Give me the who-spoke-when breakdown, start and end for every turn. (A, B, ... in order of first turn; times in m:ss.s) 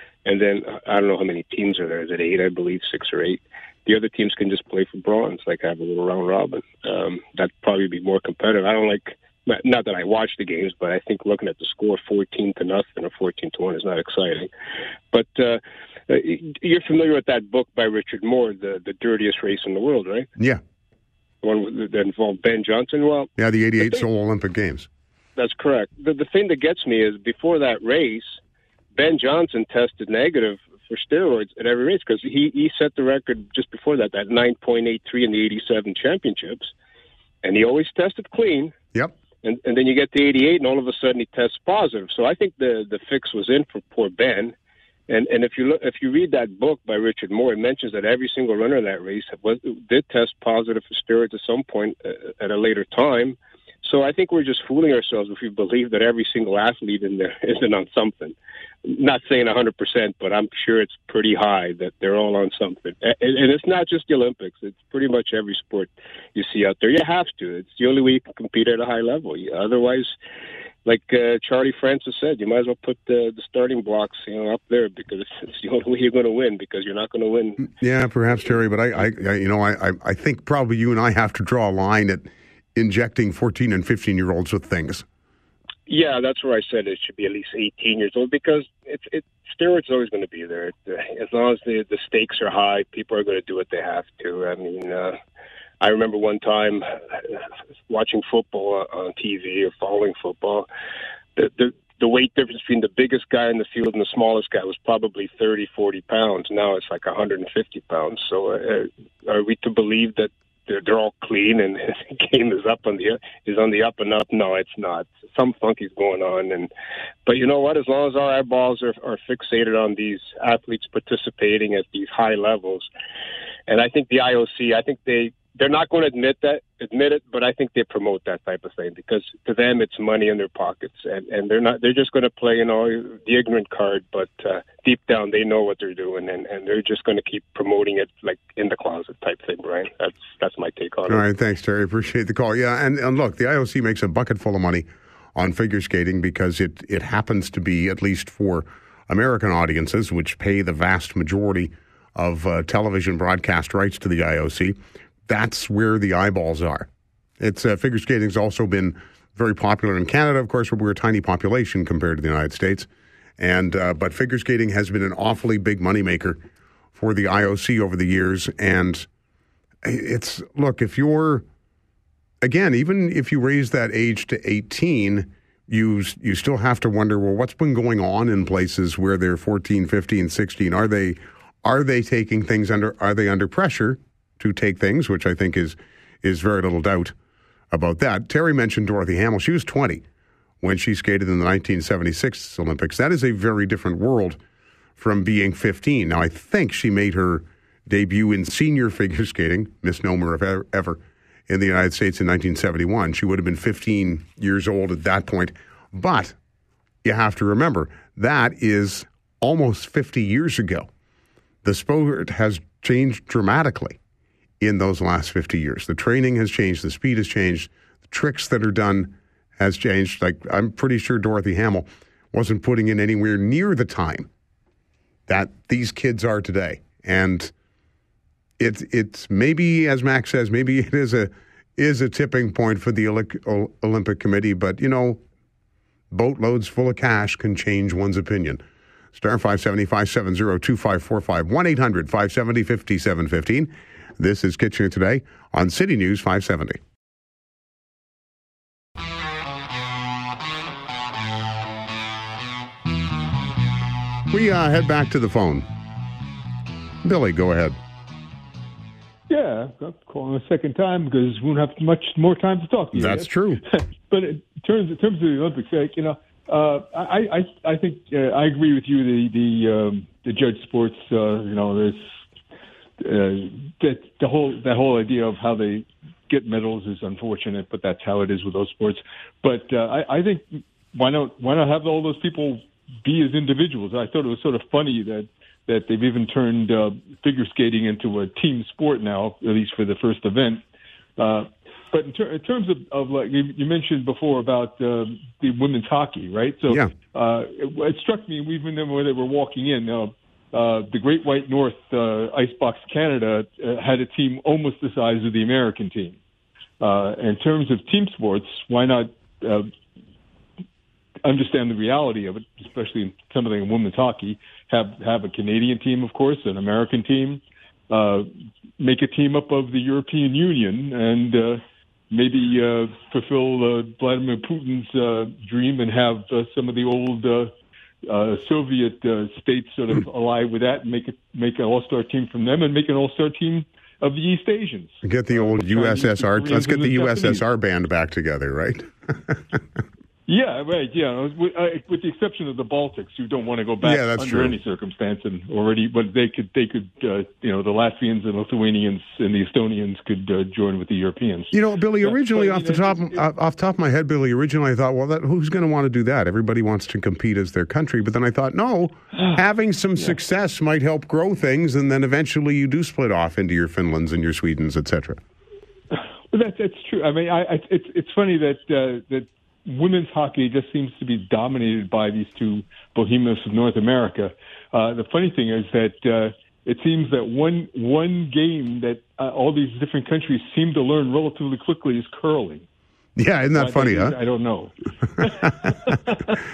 0:00.2-0:14.5 A
0:15.1-0:20.3 A
0:21.4-0:24.0 A
0:23.4-0:24.9 B
0:25.4-0:28.4 A
0:28.9-0:36.7 A
0:37.4-0:38.7 A
0:39.4-0:44.5 A
0:45.1-0:58.3 A
0:58.8-1:10.2 A
1:10.8-1:17.6 A
1:17.6-1:25.0 B
1:25.9-1:35.2 A
1:35.8-1:40.7 A
1:41.4-1:56.7 A
1:57.2-2:02.9 A
2:03.7-2:21.2 A
2:21.1-2:36.9 B
2:37.4-2:42.9 B
2:43.4-2:46.4 B
2:46.9-2:49.1 B
2:49.8-2:51.4 B
2:52.4-3:07.1 B
3:07.7-3:10.0 B
3:10.6-3:14.4 B
3:15.0-3:26.3 B
3:27.0-3:30.9 B
3:31.6-3:34.0 B
3:34.6-3:44.3 B
3:45.3-3:47.5 B
3:48.6-3:55.2 B
3:56.1-3:58.6 B
3:59.1-4:06.8 B
4:14.3-4:15.6 B
4:17.0-4:17.8 B
4:19.3-4:32.0 C
4:22.9-4:23.6 B
4:33.0-4:50.6 C
4:51.2-5:06.2 C
5:06.8-5:09.7 C
5:11.2-5:27.5 C
5:28.1-5:37.4 C
5:35.0-5:39.6 B
5:40.3-5:53.2 C
5:43.8-5:44.6 B
5:51.5-6:05.2 B
5:59.2-5:59.4 C
6:05.9-6:22.6 C
6:23.2-6:24.2 B
6:23.5-6:26.3 C